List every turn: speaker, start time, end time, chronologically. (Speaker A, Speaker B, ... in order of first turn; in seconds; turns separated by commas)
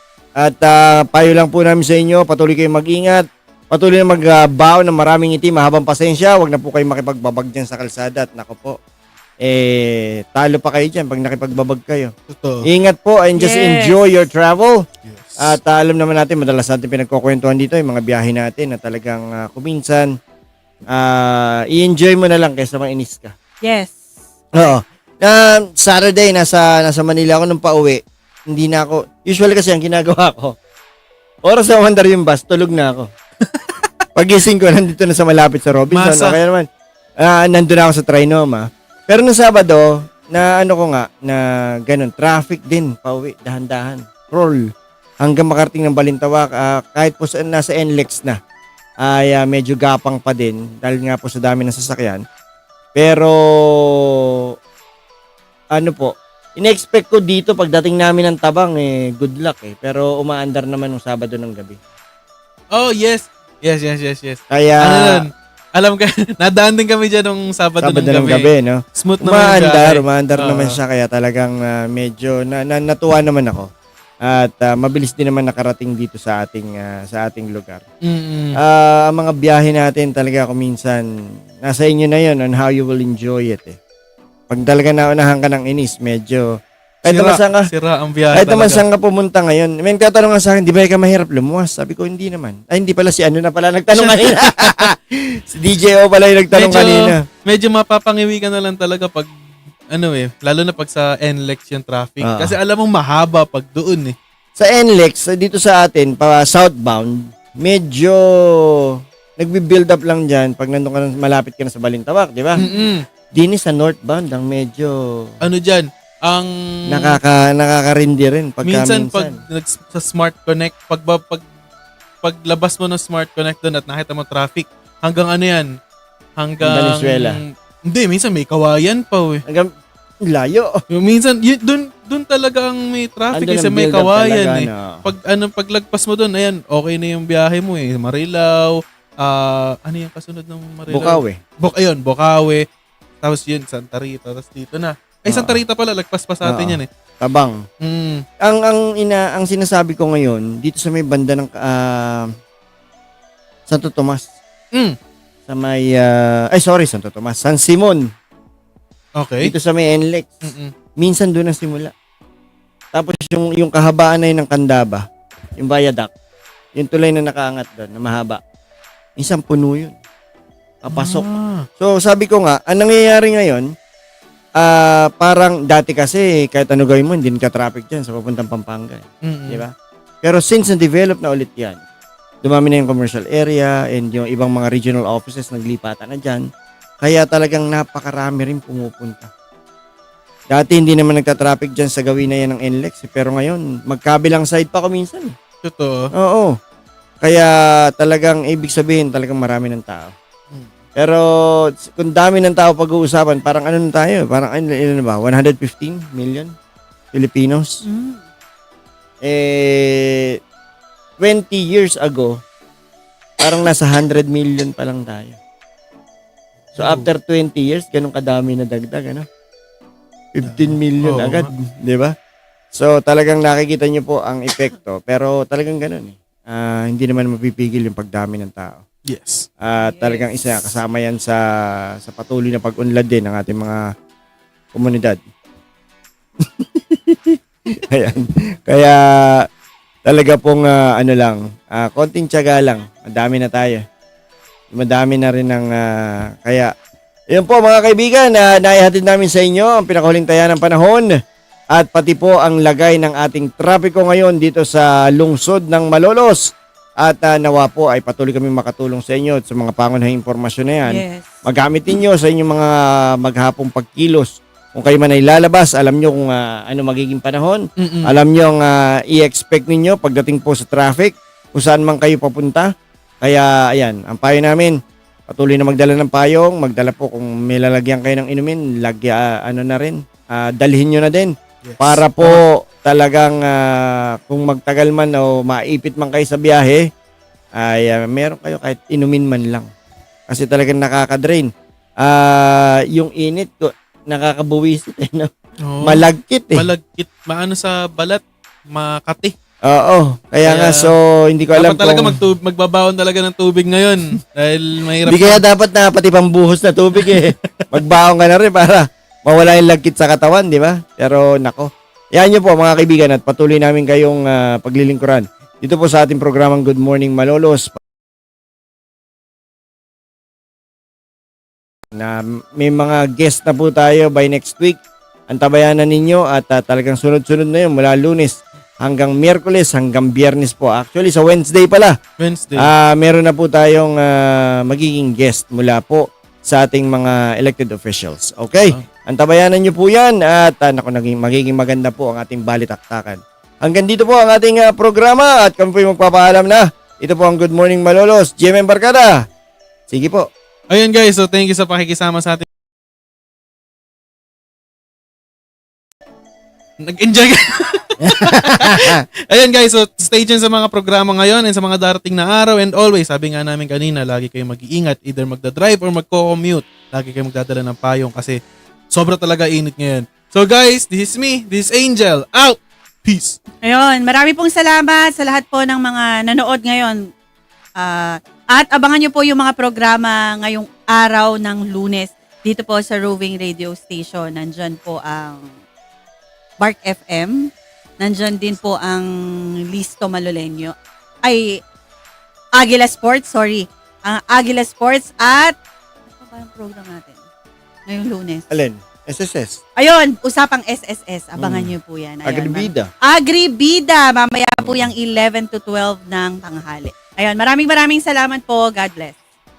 Speaker A: 0.4-8.8, Speaker A: 9.4-12.1, Speaker B: 12.3-12.7, Speaker A: 12.6-14.9, Speaker C: 13.4-14.0, Speaker B: 15.0-15.5, Speaker A: 15.4-20.1, Speaker A: 20.9-23.4, Speaker C: 23.6-24.0, Speaker A: 24.6-30.6, Speaker A: 31.4-33.1, Speaker B: 33.6-33.9, Speaker A: 34.1-36.7, Speaker B: 35.9-36.4, Speaker A: 37.2-44.7, Speaker A: 45.2-48.4, Speaker A: 49.0-52.2, Speaker A: 53.0-54.4, Speaker A: 55.8-61.8, Speaker B: 62.7-70.8, Speaker A: 64.5-65.3, Speaker A: 67.8-73.7, Speaker A: 74.2-77.8, Speaker B: 78.0-78.6, Speaker A: 78.5-81.0, Speaker A: 81.6-83.8, Speaker A: 84.5-86.5, Speaker A: 87.0-87.7, Speaker B: 87.0-88.8, Speaker A: 88.3-97.2, Speaker B: 94.0-94.9, Speaker B: 96.5-99.3, Speaker B: 99.9-104.2, Speaker A: 102.2-102.6, Speaker A: 104.6-112.6, Speaker B: 112.6-113.1, Speaker A: 113.3-115.3, Speaker B: 115.4-117.2, Speaker A: 116.9-119.4, Speaker B: 118.6-121.4, Speaker B: 122.2-125.7, Speaker B: 126.4-129.4, Speaker A: 126.6-127.4, Speaker A: 129.5-129.7, Speaker A: 130.2-130.8, Speaker B: 130.9-142.7, Speaker A: 133.3-135.1, Speaker A: 140.9-141.4, Speaker B: 143.2-146.9, Speaker A: 145.3-145.6, Speaker A: 146.4-147.6, Speaker B: 147.8-148.2, Speaker A: 148.4-152.3, Speaker A: 153.7-154.3, Speaker A: 155.5-158.1, Speaker B: 159.2-159.5, Speaker A: 159.4-161.9, Speaker B: 160.5-160.7, Speaker A: 162.9-166.1, Speaker A: 166.8-168.4, Speaker A: 169.2-170.0, Speaker A: 170.8-171.2, Speaker B: 170.9-171.7, Speaker A: 171.8-173.7, Speaker A: 174.6-181.8, Speaker B: 179.2-179.6, Speaker A: 182.4-186.5, Speaker A: 187.0-189.3, Speaker A: 190.5-195.3, Speaker B: 195.6-196.1, Speaker A: 196.1-196.6, Speaker A: 197.2-200.2, Speaker A: 201.0-201.2, Speaker A: 201.8-206.5, Speaker A: 207.1-207.8, Speaker C: 207.8-208.2, Speaker A: 209.2-210.4, Speaker A: 211.2-212.4, Speaker A: 213.4-215.4, Speaker B: 216.7-217.1, Speaker A: 216.8-219.3, Speaker A: 220.3-222.1, Speaker B: 220.4-221.5, Speaker A: 222.7-228.8, Speaker B: 229.1-229.5, Speaker A: 229.6-231.4, Speaker C: 229.8-230.4, Speaker A: 232.0-233.8, Speaker A: 234.7-235.2, Speaker A: 236.4-239.5, Speaker A: 240.1-243.8, Speaker A: 244.7-246.7, Speaker A: 247.3-251.1, Speaker A: 251.7-274.8, Speaker C: 260.9-261.4, Speaker B: 267.8-268.2, Speaker A: 275.3-286.9, Speaker B: 281.6-282.4, Speaker A: 287.6-289.7, Speaker A: 290.3-291.5, Speaker A: 292.0-296.7, Speaker B: 295.6-299.3, Speaker A: 299.6-302.2, Speaker B: 300.4-300.9, Speaker B: 301.5-305.4, Speaker A: 305.1-317.8, Speaker A: 321.9-332.0, Speaker B: 332.2-332.7, Speaker A: 332.6-349.3, Speaker A: 349.9-350.3, Speaker B: 350.7-352.4, Speaker B: 356.8-368.4, Speaker A: 358.1-359.0, Speaker B: 368.9-373.4, Speaker C: 373.6-377.1, Speaker C: 377.8-385.5, Speaker C: 386.6-391.6, Speaker C: 392.6-395.6, Speaker C: 396.2-397.2, Speaker C: 397.9-398.4, Speaker A: 398.5-399.6, Speaker C: 399.8-409.2, Speaker A: 401.4-401.7, Speaker A: 402.2-402.9, Speaker A: 404.6-404.9